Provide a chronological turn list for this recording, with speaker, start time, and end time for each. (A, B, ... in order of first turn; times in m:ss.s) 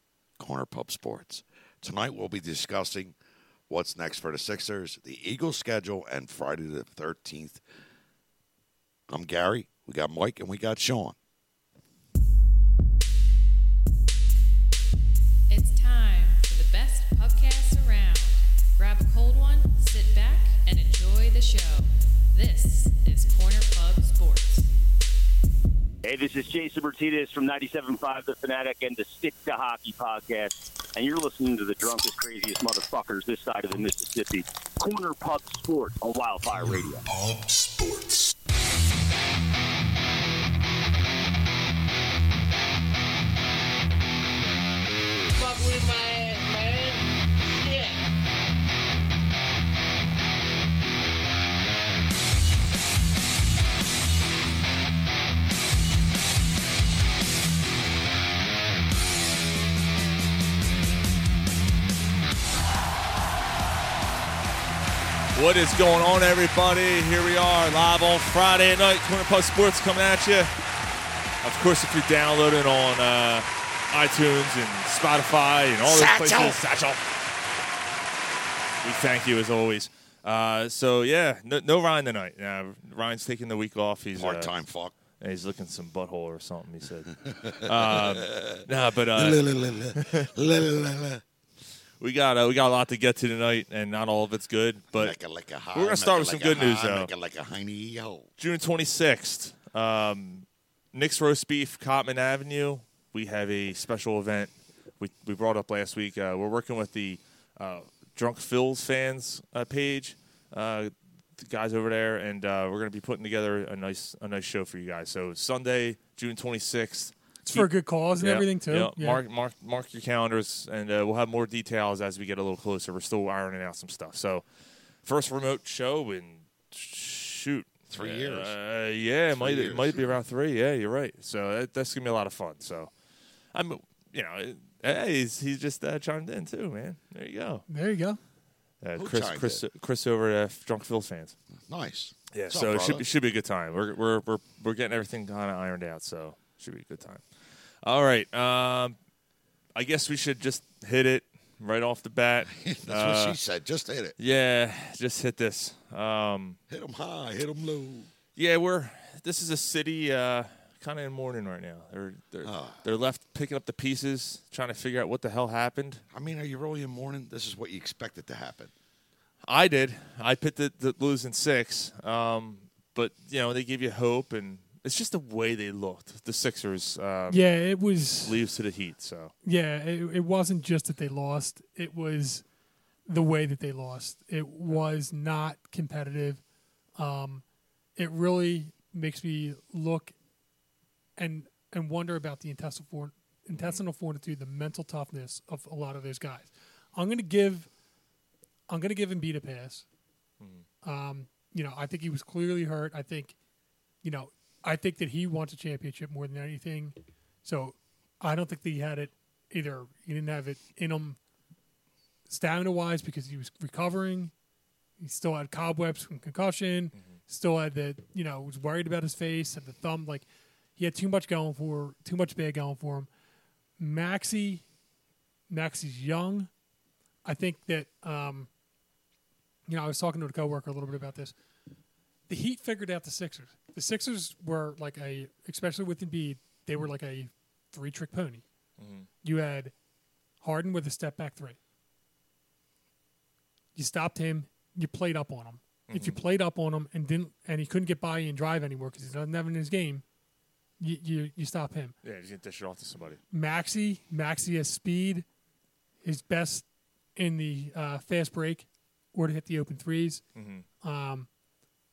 0:00.4-0:03.1 A
0:03.7-0:07.6 A
0:09.1-0:11.2 A
0:15.5-0:24.7 B
0:26.0-0:37.0 C
0:45.3-0:48.0 D
1:05.3-1:10.5 E
1:11.4-1:17.1 E
1:15.8-1:16.6 A
1:18.8-1:24.5 E
1:24.2-1:25.0 A
1:25.2-1:30.3 E
1:27.3-1:28.6 A
1:29.2-1:31.2 A
1:32.0-1:35.1 E
1:34.9-1:38.3 A
1:35.7-1:37.1 E
1:38.4-2:04.4 E
1:57.4-1:59.2 F
2:05.0-2:12.9 E
2:07.9-2:08.5 A
2:09.3-2:10.1 A
2:13.5-2:17.6 E
2:17.7-2:18.2 F
2:18.8-2:21.4 E
2:19.0-2:19.6 A
2:21.7-2:23.0 A
2:22.3-2:27.2 E
2:27.8-2:29.0 E
2:29.7-2:33.4 E
2:32.5-2:34.2 A
2:34.2-2:36.6 E
2:36.7-2:38.1 A
2:38.4-2:46.0 E
2:42.4-2:42.8 A
2:46.1-2:48.7 A
2:49.5-2:57.4 E
2:57.3-2:58.4 F
2:58.2-2:59.3 E
2:59.4-3:02.4 F
3:03.0-3:06.4 F
3:07.0-3:07.4 F
3:08.0-3:10.1 F
3:11.2-3:17.7 F
3:13.5-3:13.8 E
3:18.7-3:19.8 F
3:20.4-3:20.6 E
3:20.8-3:23.4 F
3:24.0-3:31.2 F
3:32.3-3:34.3 F
3:35.0-3:40.2 F
3:40.8-3:43.1 F
3:43.8-3:44.6 F
3:45.5-3:46.5 F
3:47.2-3:48.5 F
3:49.7-3:51.4 F
3:52.3-3:58.4 F
3:58.8-3:59.1 E
3:59.2-3:59.7 F
4:00.4-4:01.6 F
4:03.7-4:10.0 F
4:05.9-4:06.2 E
4:10.8-4:12.0 F
4:12.0-4:13.2 E
4:13.3-4:15.2 F
4:16.0-4:20.2 F
4:20.3-4:20.6 E
4:20.8-4:21.3 F